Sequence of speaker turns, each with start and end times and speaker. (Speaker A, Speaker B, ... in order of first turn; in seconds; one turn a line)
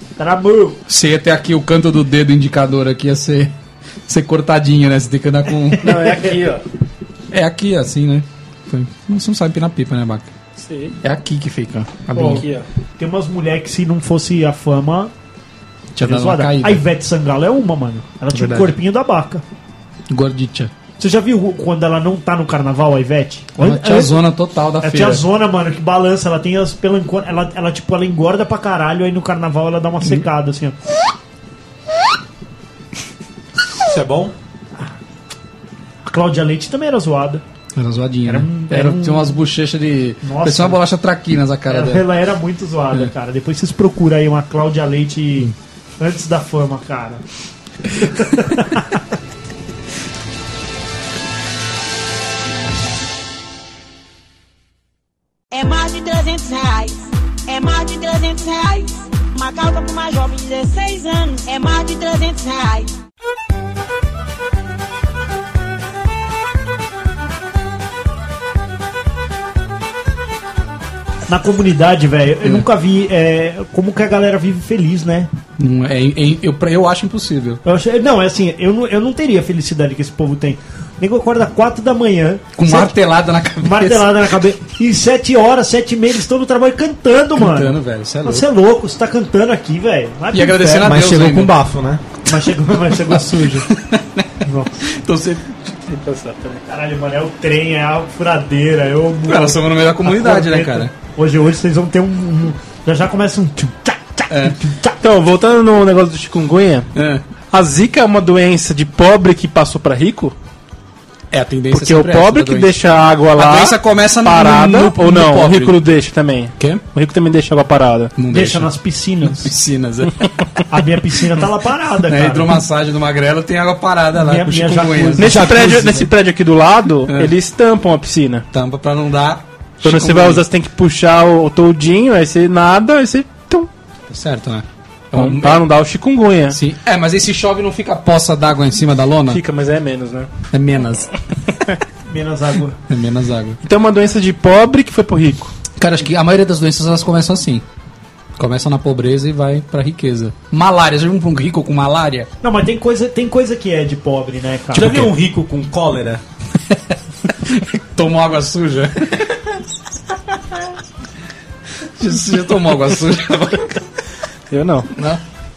Speaker A: 0.2-0.8
Speaker B: 0.9-3.5
Speaker B: 4.1-5.8
Speaker A: 5.7-6.4
Speaker C: 5.8-6.6
Speaker B: 7.3-10.3
Speaker C: 10.6-10.9
Speaker B: 11.0-12.4
Speaker A: 12.1-12.4
Speaker C: 12.2-12.7
Speaker A: 13.0-15.1
Speaker B: 15.9-16.8
Speaker A: 16.0-19.4
Speaker B: 18.3-18.8
Speaker B: 20.1-20.7
Speaker A: 21.0-24.2
Speaker B: 23.6-25.2
Speaker A: 24.8-30.8
Speaker D: 33.8-34.3
Speaker A: 36.0-37.4
Speaker B: 37.8-42.0
Speaker A: 38.3-39.4
Speaker A: 40.2-40.8
Speaker A: 41.7-47.2
Speaker A: 47.9-48.8
Speaker E: 55.5-62.9
Speaker A: 71.3-75.3
Speaker B: 75.6-77.6
Speaker A: 77.6-82.9
Speaker B: 82.5-84.1
Speaker A: 83.6-90.9
Speaker B: 87.3-88.4
Speaker B: 90.3-91.5
Speaker D: 90.6-92.0
Speaker A: 92.2-93.7
Speaker B: 93.1-95.6
Speaker A: 94.4-94.8
Speaker C: 95.8-96.6
Speaker A: 96.7-105.0
Speaker B: 99.3-100.9
Speaker B: 104.3-104.6
Speaker C: 105.0-106.9
Speaker B: 106.9-107.2
Speaker C: 107.5-110.3
Speaker B: 111.3-112.8
Speaker C: 111.7-118.1
Speaker B: 113.3-115.8
Speaker B: 116.6-116.8
Speaker B: 118.2-118.7
Speaker A: 118.3-119.5
Speaker B: 119.2-120.3
Speaker A: 120.7-122.6
Speaker B: 122.1-125.6
Speaker A: 124.2-126.1
Speaker C: 125.2-128.4
Speaker B: 127.0-127.3
Speaker B: 128.5-130.4
Speaker C: 129.8-133.7
Speaker B: 134.1-135.7
Speaker C: 135.1-136.6
Speaker B: 136.5-139.4
Speaker C: 139.3-140.3
Speaker B: 140.5-141.1
Speaker A: 142.1-142.8
Speaker B: 142.9-143.6
Speaker C: 143.6-145.5
Speaker B: 145.8-147.6
Speaker B: 148.4-152.3
Speaker A: 152.4-155.1
Speaker D: 154.7-156.2
Speaker B: 157.4-159.3
Speaker B: 162.0-163.8
Speaker C: 164.5-164.9
Speaker B: 164.9-165.2